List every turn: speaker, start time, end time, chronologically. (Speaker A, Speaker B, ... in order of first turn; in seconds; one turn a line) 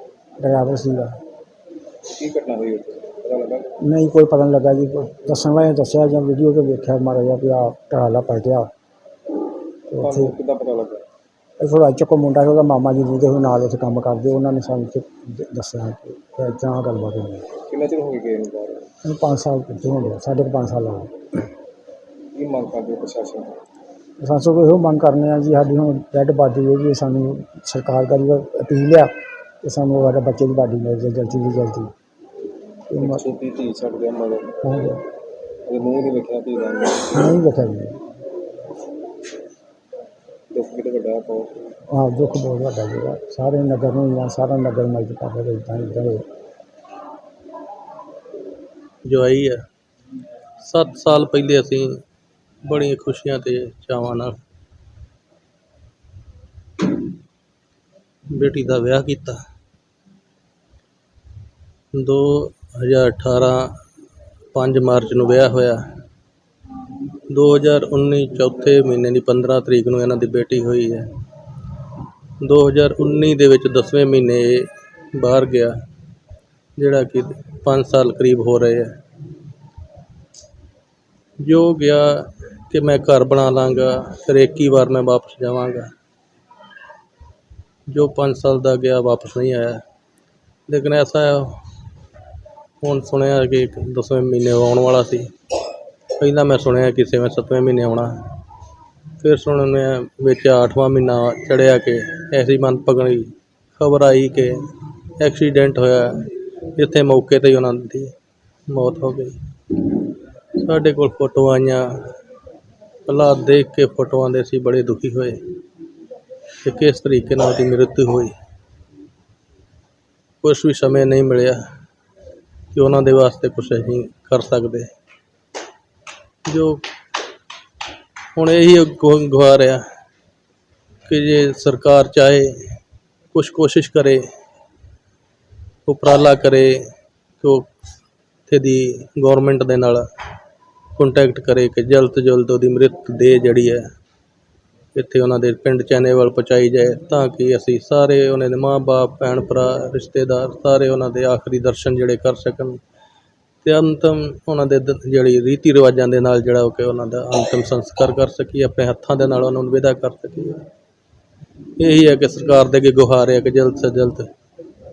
Speaker A: 0.4-1.2
Speaker B: 2.1-3.7
Speaker A: 3.8-8.7
Speaker A: 9.9-10.3
Speaker B: 10.0-11.0
Speaker A: 11.6-17.4
Speaker B: 17.7-18.9
Speaker A: 19.0-21.1
Speaker B: 22.3-23.5
Speaker A: 24.2-29.1
Speaker A: 29.6-31.9
Speaker A: 32.9-33.2
Speaker B: 33.0-34.5
Speaker A: 34.6-35.0
Speaker B: 35.6-37.3
Speaker A: 37.1-38.0
Speaker B: 40.5-41.6
Speaker A: 41.9-46.2
Speaker C: 49.0-49.6
Speaker C: 50.6-52.0
Speaker C: 52.6-54.4
Speaker C: 58.3-59.4
Speaker C: 62.0-63.7
Speaker C: 64.5-65.8
Speaker C: 67.3-71.1
Speaker C: 72.4-75.8
Speaker C: 76.8-78.9
Speaker C: 81.4-85.9
Speaker C: 87.9-89.8
Speaker C: 90.7-91.6
Speaker C: 92.8-95.3
Speaker C: 96.2-98.2
Speaker C: 99.2-104.6
Speaker C: 105.2-108.1
Speaker C: 108.7-109.4
Speaker C: 110.5-112.0
Speaker C: 113.0-115.4
Speaker C: 116.6-118.3
Speaker C: 120.4-121.6
Speaker C: 122.7-124.9
Speaker C: 126.5-126.8
Speaker C: 128.3-129.8
Speaker C: 131.1-132.5
Speaker C: 133.3-134.2
Speaker C: 135.8-136.8
Speaker C: 137.4-137.7
Speaker C: 138.5-140.0
Speaker C: 140.9-143.8
Speaker C: 144.9-152.8
Speaker C: 153.6-160.6
Speaker C: 161.8-164.3